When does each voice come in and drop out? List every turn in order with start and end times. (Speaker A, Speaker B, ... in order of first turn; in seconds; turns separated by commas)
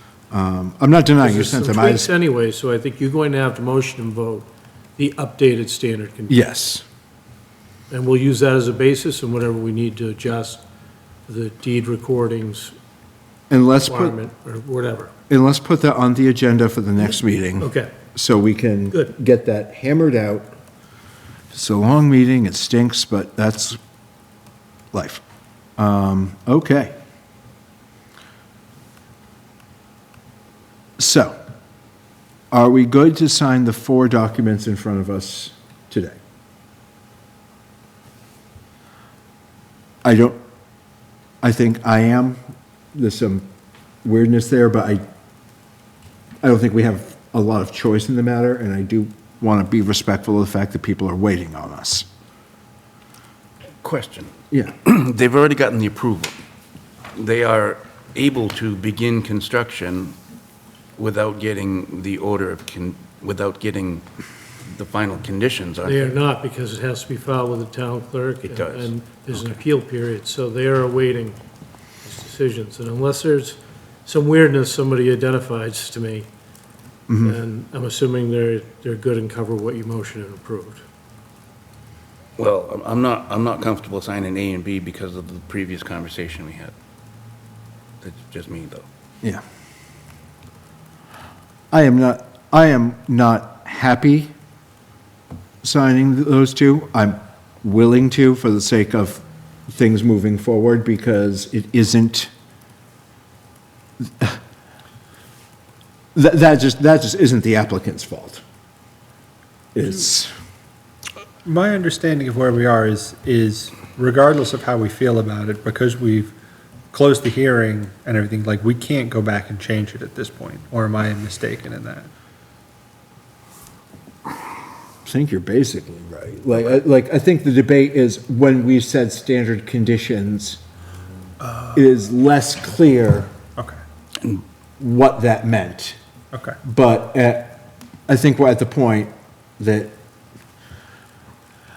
Speaker A: 0.3-2.1, Speaker B: 1.2-6.4, Speaker A: 6.3-6.8, Speaker B: 7.9-10.6, Speaker B: 11.3-12.7, Speaker A: 13.5-14.2, Speaker B: 13.8-15.1, Speaker A: 15.3-20.5, Speaker B: 17.6-17.9, Speaker A: 21.5-23.8, Speaker A: 24.9-25.2, Speaker A: 25.8-26.9, Speaker A: 31.0-31.3, Speaker A: 32.5-36.2, Speaker A: 40.0-40.4, Speaker A: 41.4-42.4, Speaker A: 42.9-43.5, Speaker A: 44.0-45.0, Speaker A: 46.4-52.0, Speaker C: 53.8-54.3, Speaker C: 54.8-56.3, Speaker C: 57.1-60.1, Speaker C: 61.0-64.0, Speaker C: 64.6-66.2, Speaker B: 65.8-71.4, Speaker C: 68.4-69.5, Speaker B: 72.0-76.3, Speaker A: 77.1-77.4, Speaker B: 77.2-80.8, Speaker C: 82.4-86.7, Speaker C: 88.0-88.8, Speaker A: 91.7-94.3, Speaker A: 95.6-102.3, Speaker A: 104.0-104.4, Speaker A: 106.1-108.4, Speaker A: 109.7-110.3, Speaker D: 111.4-116.3, Speaker D: 116.9-122.1, Speaker A: 125.0-130.6, Speaker D: 131.4-131.8, Speaker A: 131.7-133.3, Speaker A: 134.8-136.0, Speaker D: 136.3-136.6, Speaker A: 136.6-139.9